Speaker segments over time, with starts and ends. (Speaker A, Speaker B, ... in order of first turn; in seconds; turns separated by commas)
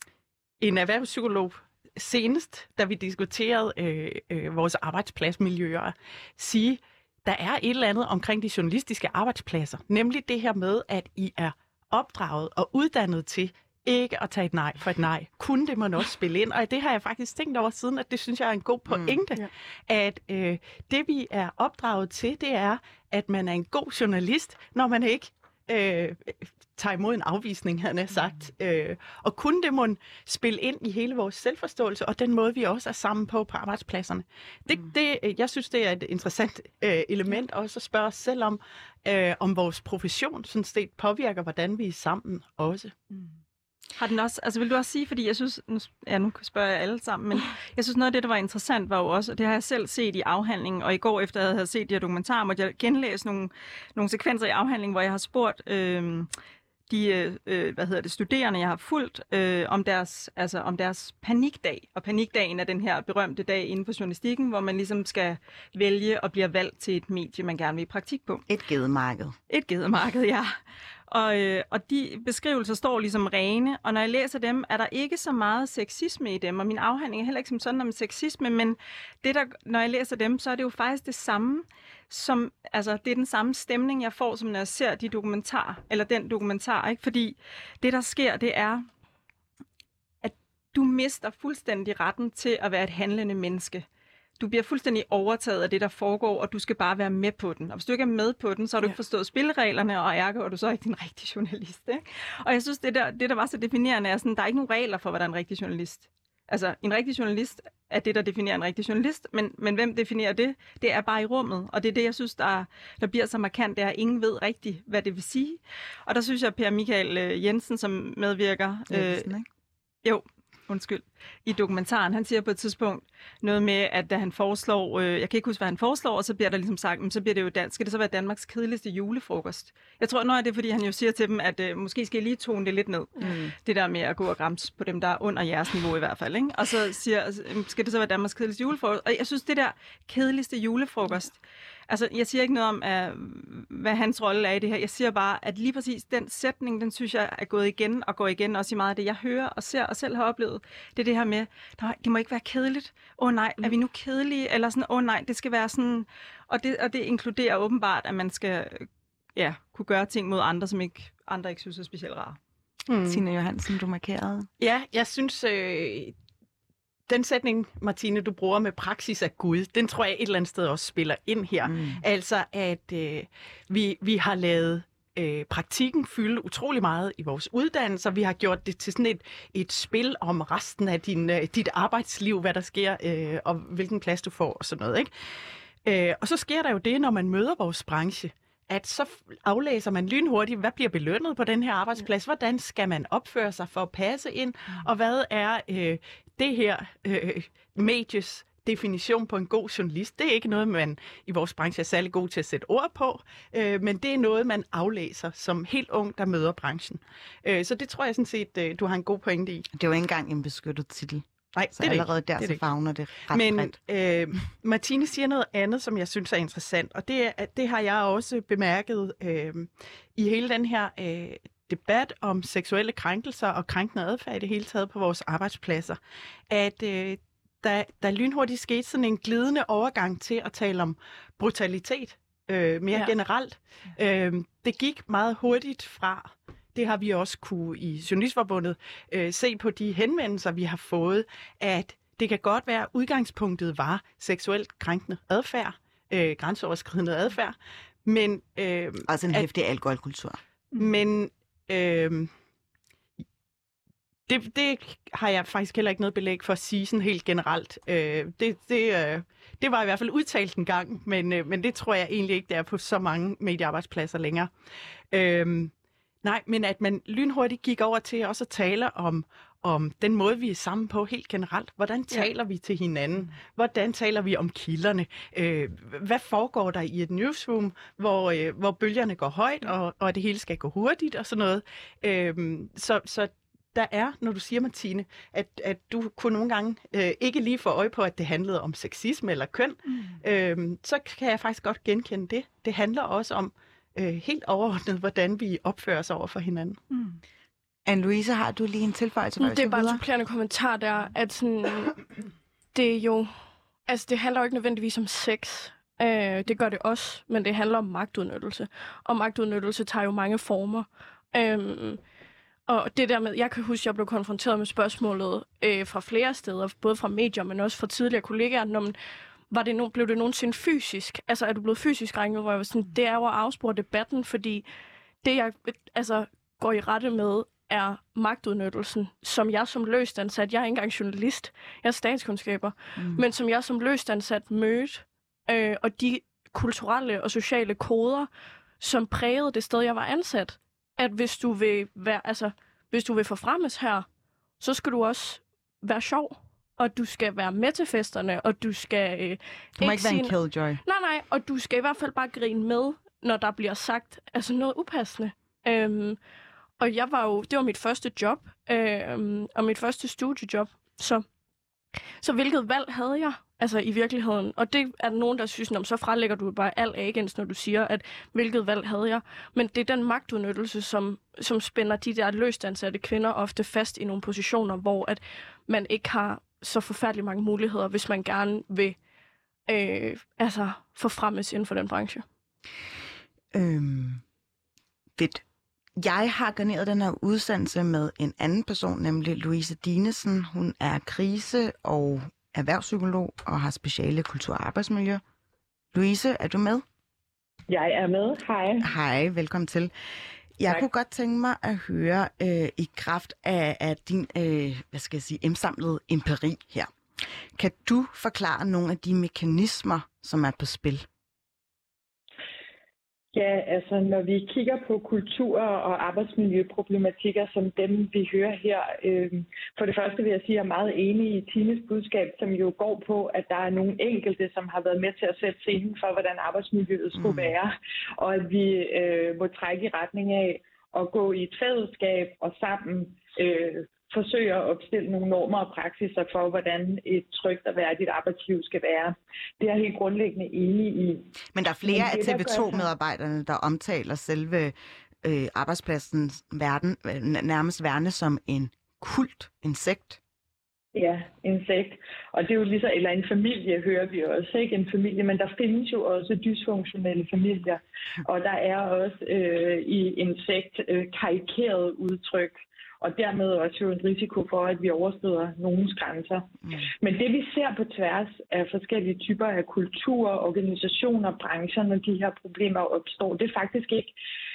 Speaker A: 0.6-42.9, Speaker B: 18.9-19.2, Speaker C: 44.0-56.3, Speaker C: 56.9-68.5, Speaker B: 68.5-69.3, Speaker C: 69.5-70.5, Speaker C: 71.1-88.9, Speaker C: 90.2-93.8, Speaker C: 94.4-119.3, Speaker B: 118.9-119.5, Speaker C: 120.0-162.4, Speaker B: 133.2-133.5, Speaker A: 162.9-163.2, Speaker B: 163.0-164.5, Speaker A: 164.6-166.2, Speaker A: 167.1-185.1, Speaker B: 171.6-172.0, Speaker A: 185.8-209.7, Speaker B: 209.7-213.8, Speaker A: 211.6-212.6, Speaker A: 213.3-226.0, Speaker A: 226.5-249.5, Speaker B: 249.1-250.4, Speaker A: 250.8-252.3, Speaker A: 254.3-264.5, Speaker A: 265.1-265.7, Speaker A: 266.2-296.8, Speaker B: 297.9-300.0, Speaker D: 299.4-302.0, Speaker D: 302.7-303.3, Speaker D: 303.9-312.0, Speaker D: 312.7-319.0, Speaker D: 319.5-324.6, Speaker D: 325.2-338.3, Speaker B: 333.0-333.2, Speaker D: 338.8-344.1, Speaker D: 344.6-356.2, Speaker B: 349.8-350.8, Speaker D: 356.8-361.3, Speaker D: 362.2-379.0, Speaker D: 379.7-382.2, Speaker B: 383.5-384.2, Speaker B: 385.2-385.4, Speaker B: 386.0-395.2, Speaker B: 395.9-396.9, Speaker E: 397.7-398.9, Speaker B: 398.8-399.9, Speaker B: 400.6-406.9, Speaker B: 407.6-411.1, Speaker E: 413.3-441.3, Speaker B: 427.1-427.5, Speaker B: 441.5-450.2, Speaker E: 441.9-442.9, Speaker E: 450.9-474.1